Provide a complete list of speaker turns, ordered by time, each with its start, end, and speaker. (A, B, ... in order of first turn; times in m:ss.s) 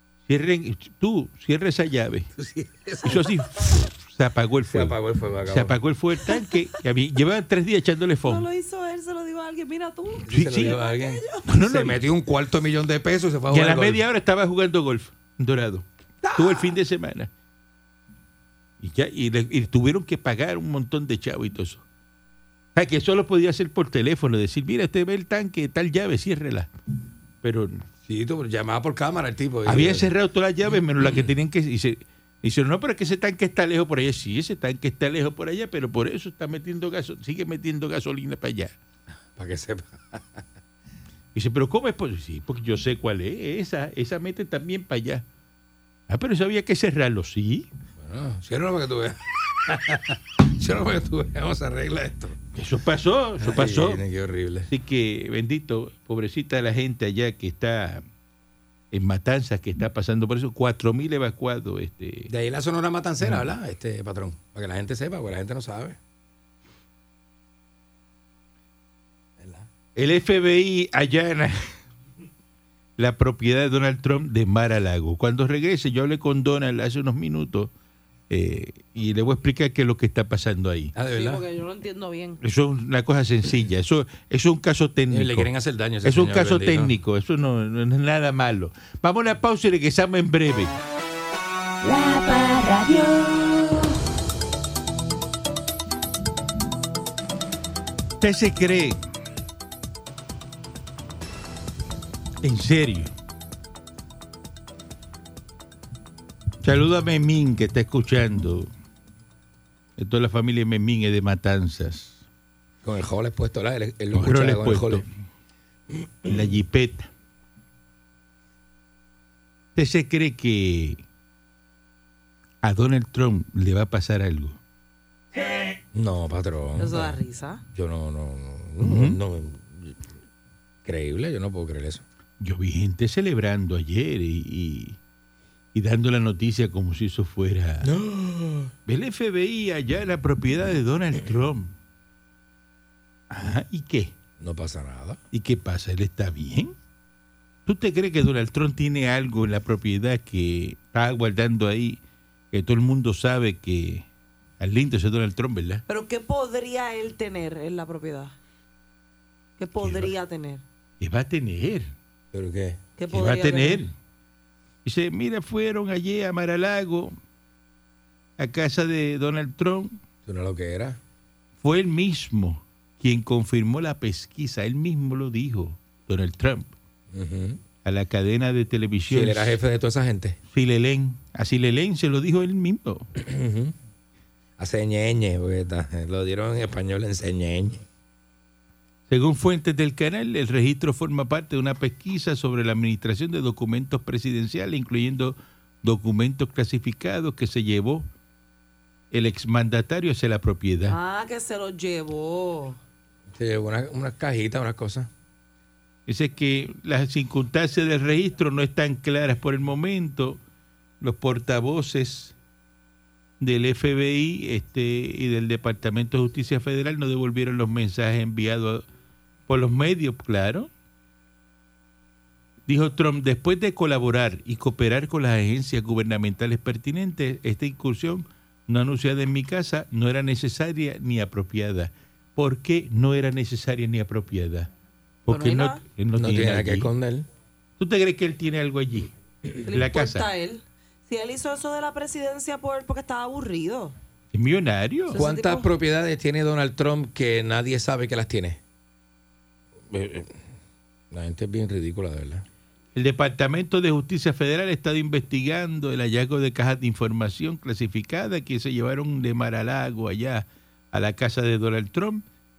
0:00.3-0:02.3 A
0:02.4-0:03.4 B
0:03.0-0:08.5 A
0:04.7-0:05.8 B
0:08.2-0:11.5 C
0:10.3-0:14.0 B
0:10.3-0:10.8 A
0:11.5-0:12.1 A
0:13.5-0:17.3 A
0:18.8-0:21.8 A
0:22.8-0:26.7 A
0:27.4-0:27.8 A
0:28.0-0:30.1 B
0:29.6-0:38.8 A
0:39.4-0:40.4 B
0:41.3-0:45.2 A
0:46.1-0:47.7 A
0:48.0-0:52.4 B
0:52.5-0:54.0 A
0:53.4-0:54.7 B
0:54.7-0:58.0 A
0:58.9-1:02.3 A
1:02.3-1:06.0 B
1:03.2-1:03.5 A
1:09.4-1:09.7 B
1:10.0-1:11.7 A
1:13.0-1:17.7 A
1:18.3-1:20.9 A
1:21.0-1:21.4 B
1:21.1-1:22.4 C
1:22.4-1:25.5 A
1:25.1-1:26.9 B
1:26.0-1:30.7 A
1:31.8-1:33.9 D
1:38.2-1:39.0 A
1:42.4-1:43.1 A
1:46.6-1:48.7 A
1:50.0-1:52.2 A
1:52.8-1:55.0 B
1:54.1-1:55.1 A
1:56.2-1:57.1 A
1:59.8-2:01.0 A
2:02.6-2:04.6 A
2:05.9-2:07.2 B
2:06.8-2:07.6 C
2:07.7-2:10.0 B
2:08.8-2:09.2 A
2:10.8-2:12.0 B
2:12.4-2:15.0 A
2:15.7-2:17.9 A
2:17.8-2:18.7 B
2:18.9-2:21.7 A
2:23.3-2:24.1 A
2:24.4-2:25.2 B
2:25.3-2:26.8 A
2:27.6-2:32.0 A
2:32.5-2:34.1 A
2:34.6-2:35.8 A
2:35.9-2:38.4 C
2:39.6-2:40.6 C
2:39.8-2:40.1 A
2:41.0-2:41.9 A
2:42.3-2:42.8 B
2:43.0-2:43.9 C
2:43.1-2:43.9 A
2:44.8-2:47.2 A
2:48.4-2:50.0 A
2:50.3-2:51.0 B
2:51.6-2:56.7 A
2:57.1-2:57.6 B
2:57.8-2:59.6 A
2:59.1-3:00.4 B
3:00.5-3:03.1 A
3:03.2-3:03.8 B
3:04.6-3:07.8 B
3:09.1-3:18.1 A
3:19.1-3:21.0 A
3:20.9-3:22.8 C
3:23.3-3:25.1 B
3:26.1-3:30.4 A
3:31.0-3:32.4 A
3:33.4-3:38.8 A
3:39.5-3:40.7 A
3:42.7-3:54.7 A
3:55.2-3:56.9 A
3:55.3-3:55.8 C
3:56.2-3:57.3 B
3:57.8-3:59.1 A
3:59.6-4:04.0 C
3:59.6-4:00.3 A
4:04.3-4:05.2 A
4:05.1-4:05.7 C
4:05.1-4:08.6 B
4:09.9-4:10.4 B
4:11.1-4:12.5 B
4:13.0-4:22.2 A